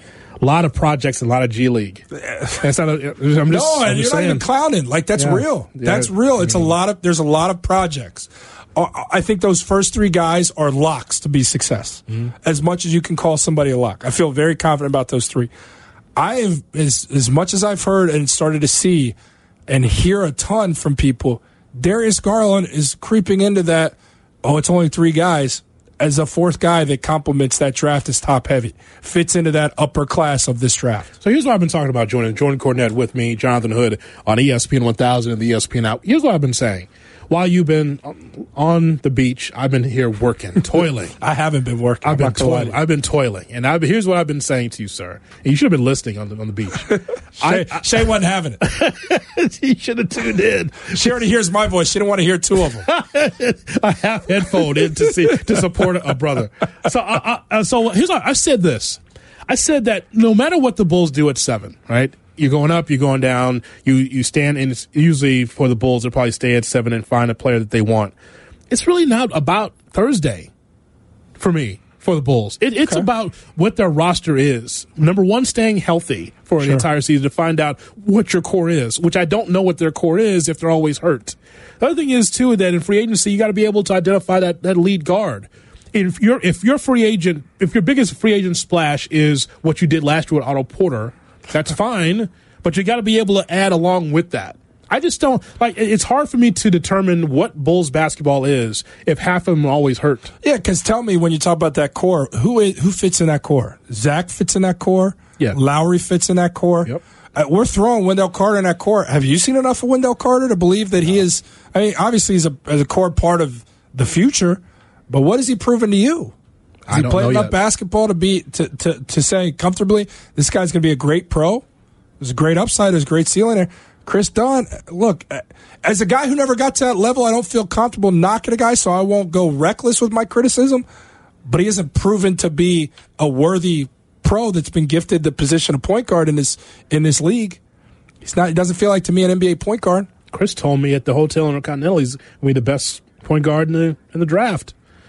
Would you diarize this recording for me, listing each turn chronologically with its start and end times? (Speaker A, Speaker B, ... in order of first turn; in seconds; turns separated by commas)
Speaker A: 0.4-2.0, Speaker B: 2.1-2.6, Speaker A: 2.6-4.4, Speaker B: 3.5-15.5, Speaker A: 5.2-6.7, Speaker B: 16.2-19.1, Speaker B: 19.7-31.1, Speaker A: 31.2-41.1, Speaker B: 41.2-42.8, Speaker A: 42.0-47.9, Speaker B: 47.4-48.6, Speaker A: 48.6-51.0, Speaker B: 50.9-52.9, Speaker A: 52.9-68.1, Speaker A: 68.7-70.5, Speaker A: 71.4-100.3, Speaker B: 72.8-73.1, Speaker B: 76.6-76.9, Speaker B: 100.4-116.3, Speaker A: 116.9-117.5, Speaker B: 116.9-121.7, Speaker B: 122.2-130.8, Speaker B: 131.4-137.6, Speaker B: 138.2-140.1, Speaker A: 140.3-144.7